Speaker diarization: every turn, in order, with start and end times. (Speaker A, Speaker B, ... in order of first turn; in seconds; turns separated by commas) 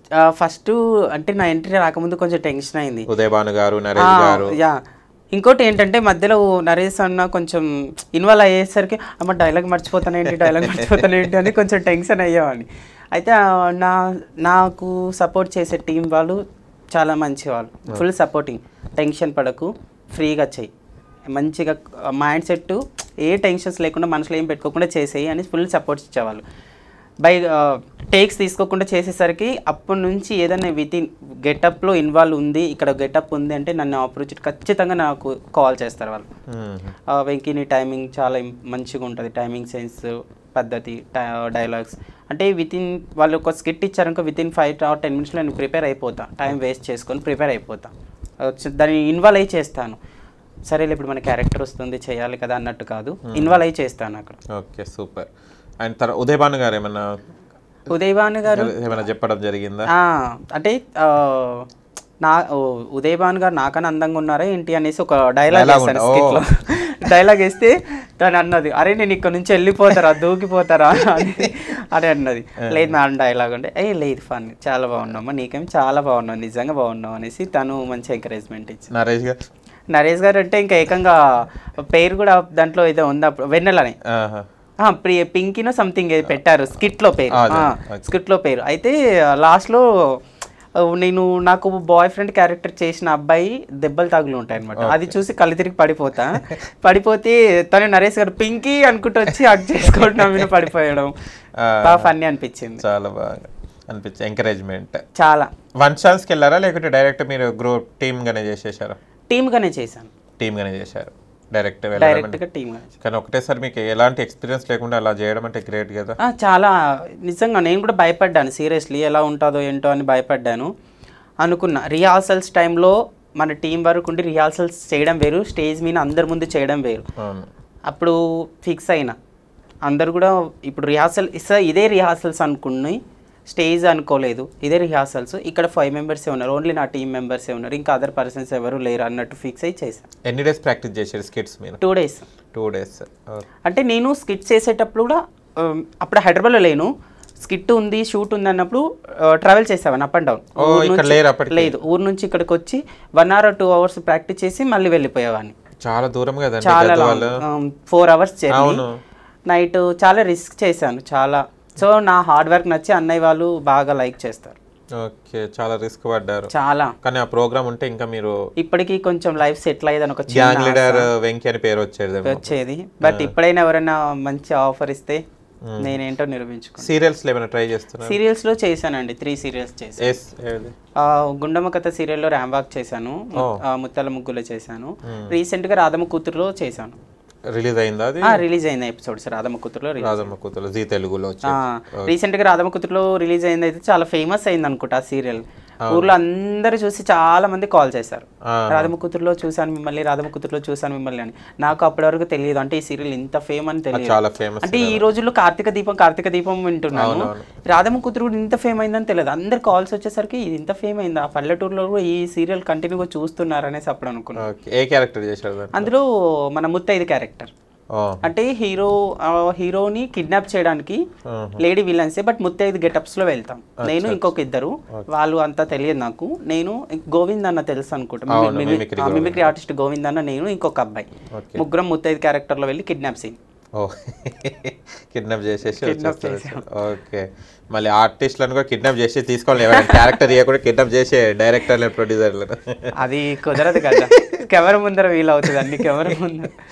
Speaker A: 0.2-3.1, Speaker B: 3.1-4.6, Speaker A: 4.0-4.8, Speaker A: 5.3-16.4, Speaker B: 10.5-11.1, Speaker A: 16.9-20.7, Speaker A: 21.3-26.4, Speaker A: 27.2-36.3, Speaker B: 36.5-37.0, Speaker A: 37.1-47.9, Speaker A: 48.4-50.0, Speaker A: 50.7-54.4, Speaker B: 53.3-53.6, Speaker B: 54.6-55.3, Speaker B: 55.8-57.2, Speaker A: 57.9-58.8, Speaker B: 58.5-59.9, Speaker A: 59.9-61.7, Speaker A: 62.2-78.9, Speaker B: 65.5-66.4, Speaker B: 71.2-71.4, Speaker B: 78.9-79.4, Speaker A: 79.9-84.0, Speaker B: 84.1-84.5, Speaker A: 84.8-89.8, Speaker B: 87.3-88.1, Speaker A: 90.9-101.1, Speaker B: 94.7-95.1, Speaker B: 100.0-100.5, Speaker B: 101.6-102.1, Speaker A: 101.8-102.8, Speaker B: 102.8-105.0, Speaker A: 105.2-105.5, Speaker B: 105.8-109.0, Speaker A: 109.3-110.1, Speaker B: 110.4-112.4, Speaker A: 112.0-112.9, Speaker B: 113.0-116.2, Speaker A: 116.2-116.7, Speaker A: 117.2-120.7, Speaker A: 121.4-127.0, Speaker B: 127.2-127.5, Speaker A: 127.9-129.2, Speaker A: 129.9-140.1, Speaker B: 140.3-141.8, Speaker A: 141.8-142.3, Speaker B: 142.5-143.5, Speaker A: 143.7-146.9, Speaker A: 147.4-155.6, Speaker B: 150.6-151.8, Speaker B: 155.8-157.4, Speaker A: 156.6-158.8, Speaker B: 158.5-159.0, Speaker A: 159.5-164.6, Speaker B: 165.0-166.5, Speaker A: 166.5-166.9, Speaker B: 167.0-168.4, Speaker A: 168.6-171.1, Speaker B: 170.3-172.5, Speaker A: 172.2-175.2, Speaker B: 173.1-173.3, Speaker B: 175.7-176.0, Speaker A: 175.8-176.9, Speaker B: 176.8-178.2, Speaker A: 178.0-180.2, Speaker B: 180.0-180.8, Speaker A: 181.0-187.0, Speaker B: 183.3-183.6, Speaker B: 185.1-185.3, Speaker B: 187.5-188.4, Speaker A: 188.2-190.3, Speaker B: 190.0-192.1, Speaker A: 191.4-214.4, Speaker B: 198.5-198.9, Speaker B: 203.9-205.1, Speaker B: 206.9-207.5, Speaker B: 214.4-215.9, Speaker A: 215.8-217.5, Speaker B: 217.9-218.3, Speaker A: 218.2-221.0, Speaker B: 221.3-221.6, Speaker A: 221.6-233.4, Speaker B: 223.8-224.3, Speaker B: 228.3-229.5, Speaker B: 231.3-231.6, Speaker B: 233.8-242.9, Speaker A: 235.7-236.6, Speaker A: 239.6-240.1, Speaker A: 243.0-246.5, Speaker B: 243.6-244.4, Speaker B: 245.5-246.1